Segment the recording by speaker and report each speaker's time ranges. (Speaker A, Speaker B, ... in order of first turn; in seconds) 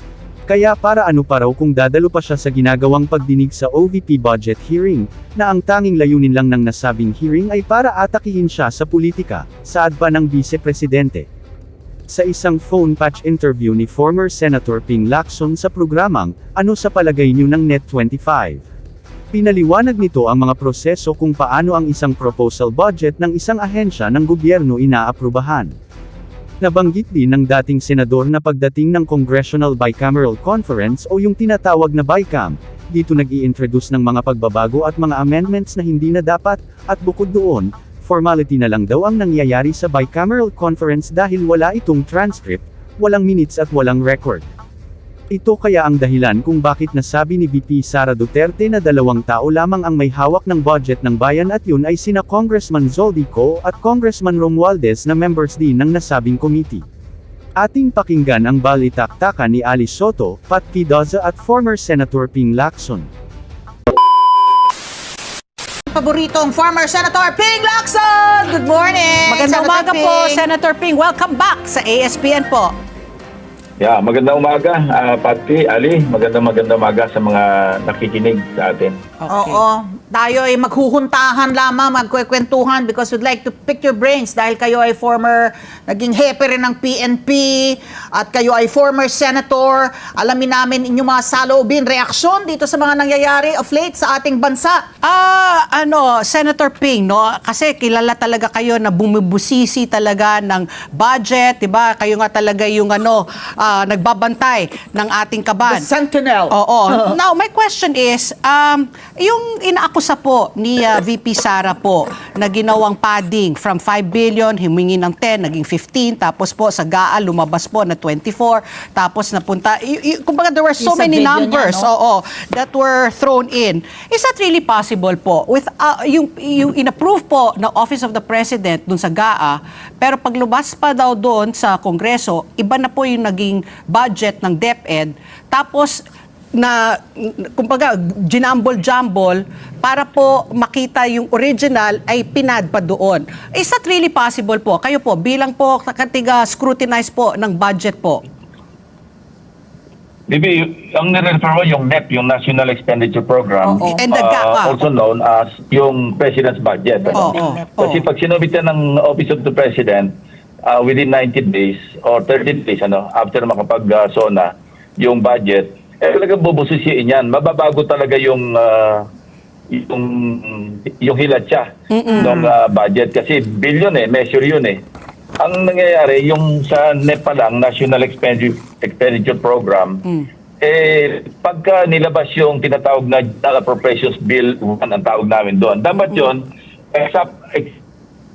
Speaker A: 0.5-11.3, 12.1-18.6, 19.3-25.7, 26.6-44.5, 45.3-56.9, 57.6-63.1
Speaker B: 65.9-70.5, 79.3-94.8, 105.6-107.2, 120.8-121.9, 153.6-154.1, 157.0-158.0
Speaker C: 69.3-72.7, 79.2-79.6, 95.0-105.9, 106.5-136.0, 136.6-148.2, 153.8-154.9, 157.1-157.7, 171.9-172.6
Speaker D: 73.8-79.0, 150.3-160.1, 160.7-169.1, 169.7-174.8, 175.4-180.0, 180.6-187.8